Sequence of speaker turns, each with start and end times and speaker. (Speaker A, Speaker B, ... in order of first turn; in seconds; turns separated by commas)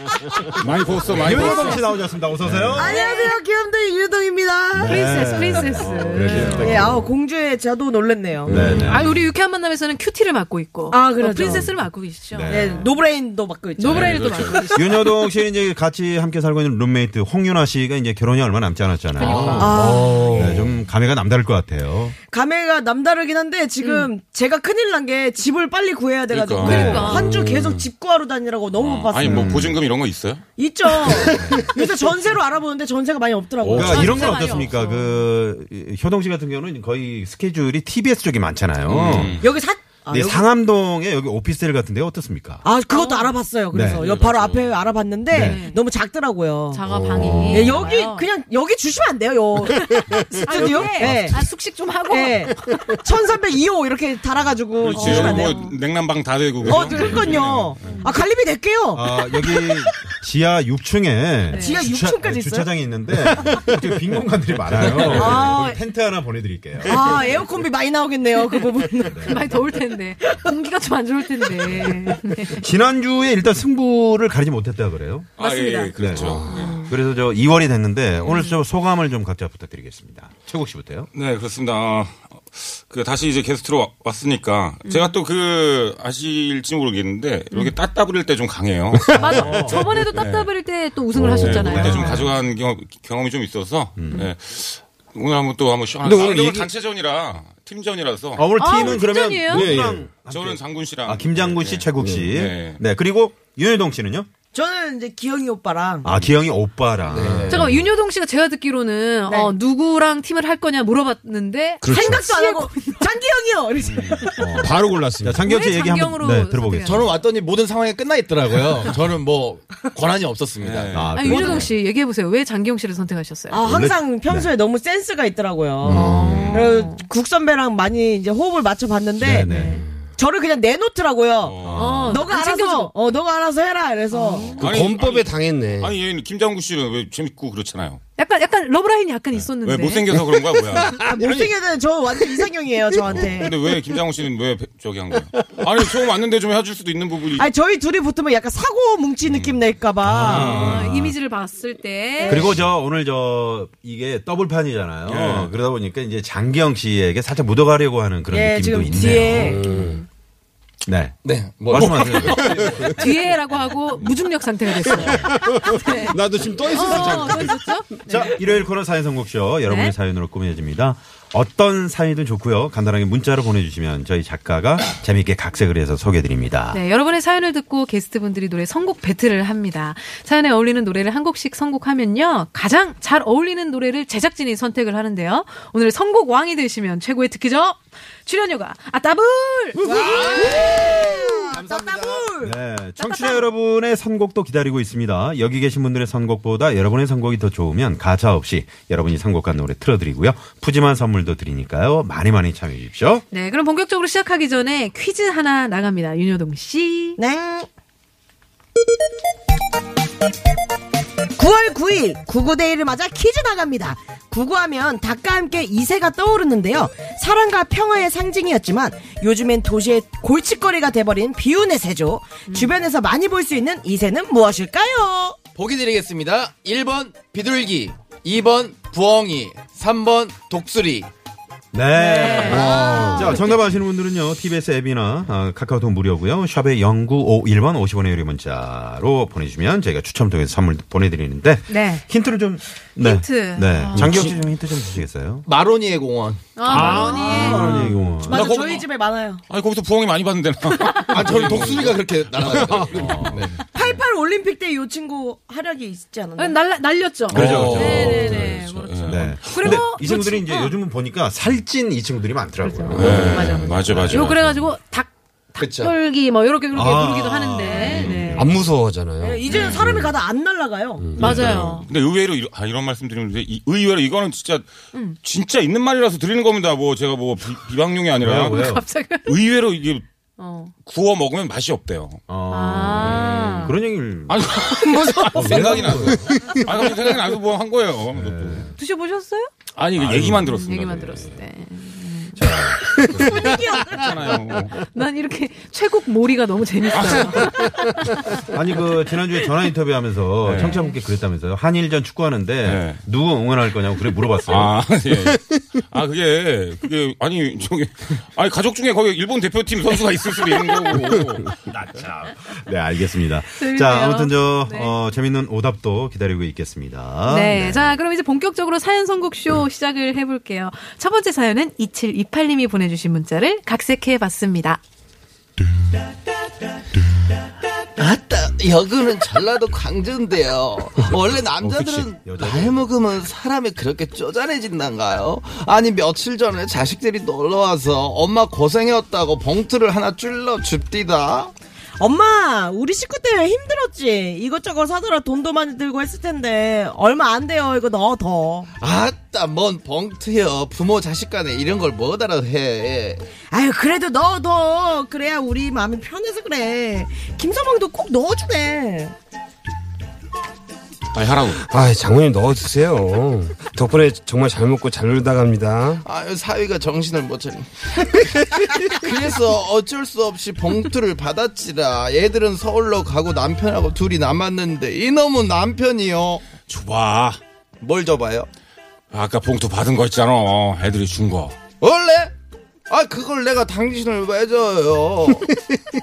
Speaker A: 0.6-1.8, Speaker B: 1.1-3.0, Speaker C: 1.3-1.6, Speaker D: 2.4-2.7, Speaker C: 2.7-5.6, Speaker E: 2.8-3.3, Speaker B: 4.7-7.1, Speaker E: 4.9-6.8, Speaker D: 6.4-6.9, Speaker C: 6.5-8.9, Speaker D: 8.4-9.0, Speaker B: 8.5-9.2, Speaker E: 8.7-12.8, Speaker C: 10.9-11.7, Speaker B: 12.3-12.9, Speaker C: 12.5-14.8, Speaker E: 13.8-14.9, Speaker A: 13.9-14.6, Speaker B: 14.7-22.1, Speaker E: 19.2-20.0, Speaker D: 19.5-20.6, Speaker C: 19.6-20.5, Speaker C: 22.3-29.6, Speaker E: 23.8-24.1, Speaker A: 26.3-26.9, Speaker B: 26.6-27.2, Speaker E: 26.6-27.3, Speaker D: 27.0-27.9, Speaker A: 28.8-30.4, Speaker B: 29.2-29.8, Speaker C: 30.6-34.6, Speaker D: 31.1-31.7, Speaker B: 31.2-31.7, Speaker A: 33.6-34.1, Speaker B: 33.7-39.4, Speaker E: 33.8-35.2, Speaker A: 38.9-39.5, Speaker C: 39.4-40.5, Speaker B: 40.1-42.6, Speaker C: 42.6-46.8, Speaker E: 42.9-43.3, Speaker B: 43.7-44.0, Speaker A: 43.9-44.7, Speaker B: 45.3-45.6, Speaker E: 45.3-45.8, Speaker E: 46.7-48.2, Speaker B: 46.9-47.8, Speaker D: 47.1-47.5, Speaker C: 47.5-51.4, Speaker E: 50.3-52.8, Speaker B: 51.0-51.4, Speaker C: 52.1-55.7, Speaker A: 54.8-58.0, Speaker E: 54.9-55.7, Speaker C: 56.6-59.6, Speaker D: 56.8-57.1, Speaker E: 56.9-58.1, Speaker B: 58.9-67.1, Speaker E: 61.5-61.8, Speaker C: 61.5-62.7, Speaker A: 64.7-65.6, Speaker C: 64.9-65.7, Speaker E: 65.2-65.8, Speaker C: 66.8-69.6, Speaker B: 69.0-69.5, Speaker E: 69.2-72.7, Speaker C: 71.6-72.2, Speaker B: 72.5-75.3, Speaker A: 75.4-76.7, Speaker E: 75.4-75.9, Speaker B: 76.0-81.1, Speaker D: 76.1-76.7, Speaker E: 76.5-76.8, Speaker E: 78.2-78.6, Speaker A: 81.1-89.6, Speaker E: 84.8-85.1, Speaker D: 89.0-89.5, Speaker E: 89.1-92.2, Speaker B: 89.3-89.8, Speaker A: 90.1-90.5, Speaker D: 91.1-92.0, Speaker A: 91.4-98.4, Speaker B: 91.6-92.3, Speaker B: 94.0-94.2, Speaker D: 96.0-96.7, Speaker B: 98.3-104.3, Speaker E: 98.5-99.7, Speaker D: 99.5-100.1, Speaker A: 100.3-102.8, Speaker D: 102.0-102.3, Speaker C: 104.5-106.1, Speaker B: 106.0-107.8, Speaker D: 107.1-107.8, Speaker E: 107.5-113.0, Speaker C: 109.3-109.5, Speaker D: 111.8-112.2, Speaker C: 111.9-114.5, Speaker A: 113.8-114.2, Speaker B: 114.4-117.1, Speaker D: 114.5-115.5, Speaker E: 115.4-117.1, Speaker F: 116.8-121.1, Speaker A: 120.6-121.4, Speaker B: 120.9-121.7, Speaker E: 121.2-123.6, Speaker C: 123.5-129.6, Speaker B: 123.6-124.5, Speaker B: 125.8-126.7, Speaker E: 125.9-127.0, Speaker D: 125.9-126.5, Speaker B: 129.2-129.8, Speaker E: 129.5-129.8, Speaker C: 130.2-134.6, Speaker A: 131.4-132.0, Speaker B: 131.6-132.2, Speaker E: 131.8-132.9, Speaker E: 134.1-134.6, Speaker D: 134.6-135.9, Speaker A: 134.6-138.0, Speaker E: 138.2-140.1, Speaker A: 139.6-141.4, Speaker D: 140.7-141.4, Speaker C: 141.0-143.5, Speaker A: 143.1-147.5, Speaker C: 147.4-150.7, Speaker A: 149.2-149.6, Speaker B: 150.0-151.1, Speaker E: 150.2-152.5, Speaker C: 152.2-152.5, Speaker B: 152.3-159.6, Speaker A: 155.1-155.5, Speaker C: 158.3-159.6, Speaker D: 159.3-160.0, Speaker E: 159.7-160.0, Speaker B: 160.8-161.2, Speaker F: 161.2-162.9, Speaker B: 161.7-162.7, Speaker E: 162.8-168.3, Speaker D: 164.8-168.0, Speaker B: 165.0-165.3, Speaker B: 168.1-176.8, Speaker E: 169.7-169.9, Speaker E: 176.7-190.6, Speaker C: 189.8-192.5, Speaker F: 189.9-192.3, Speaker B: 192.4-203.2, Speaker E: 193.0-193.4, Speaker E: 203.3-207.2, Speaker C: 207.2-207.7, Speaker C: 211.4-225.4, Speaker E: 222.5-222.7, Speaker F: 225.5-231.1, Speaker B: 231.7-245.4, Speaker E: 231.9-233.6, Speaker D: 232.4-233.3, Speaker C: 232.5-233.4, Speaker E: 241.7-242.0, Speaker E: 243.0-244.3, Speaker D: 244.0-244.3, Speaker F: 245.4-247.1, Speaker E: 246.6-247.9, Speaker C: 246.7-249.4, Speaker B: 246.7-248.6, Speaker A: 248.3-248.9, Speaker A: 249.5-252.0, Speaker E: 250.8-251.1, Speaker F: 251.1-253.6, Speaker D: 252.4-253.3, Speaker B: 252.9-253.4, Speaker C: 253.7-256.6, Speaker E: 256.4-260.7, Speaker A: 257.3-259.8, Speaker B: 257.3-264.4, Speaker F: 257.4-258.3, Speaker E: 262.6-268.5, Speaker A: 262.9-264.4, Speaker F: 265.6-265.9, Speaker B: 266.7-268.6, Speaker C: 267.7-268.0, Speaker D: 268.3-270.1, Speaker C: 269.2-271.1, Speaker D: 271.0-271.4, Speaker E: 271.2-271.9, Speaker B: 271.2-271.8, Speaker A: 271.2-274.7, Speaker A: 275.2-278.6, Speaker B: 278.2-278.8, Speaker E: 278.5-279.4, Speaker A: 279.2-280.0, Speaker E: 280.4-280.7, Speaker A: 280.8-282.2, Speaker B: 282.3-284.4, Speaker E: 282.5-283.7, Speaker A: 283.0-283.7, Speaker A: 284.3-288.6, Speaker B: 285.3-286.3, Speaker D: 285.4-286.6, Speaker B: 288.1-288.7, Speaker E: 288.8-289.5, Speaker A: 289.7-291.2, Speaker B: 289.9-291.3, Speaker E: 290.4-293.1, Speaker B: 292.4-293.5, Speaker C: 293.2-294.1, Speaker A: 293.4-294.7, Speaker E: 294.9-298.3, Speaker A: 296.9-297.5, Speaker B: 298.5-304.7, Speaker A: 300.4-300.8, Speaker E: 300.6-300.9, Speaker A: 302.6-303.0, Speaker A: 304.4-311.6, Speaker B: 311.7-318.0, Speaker E: 313.6-314.9, Speaker E: 317.3-324.8, Speaker F: 328.0-341.5, Speaker A: 331.6-332.1, Speaker B: 332.2-332.9, Speaker C: 342.0-348.7, Speaker F: 348.8-353.2, Speaker C: 353.5-359.1, Speaker A: 361.1-361.6, Speaker D: 361.6-366.0, Speaker F: 366.0-367.9, Speaker F: 368.8-376.4, Speaker A: 376.7-377.4, Speaker F: 377.8-378.5, Speaker A: 379.1-381.6, Speaker F: 381.8-382.3, Speaker F: 382.9-385.5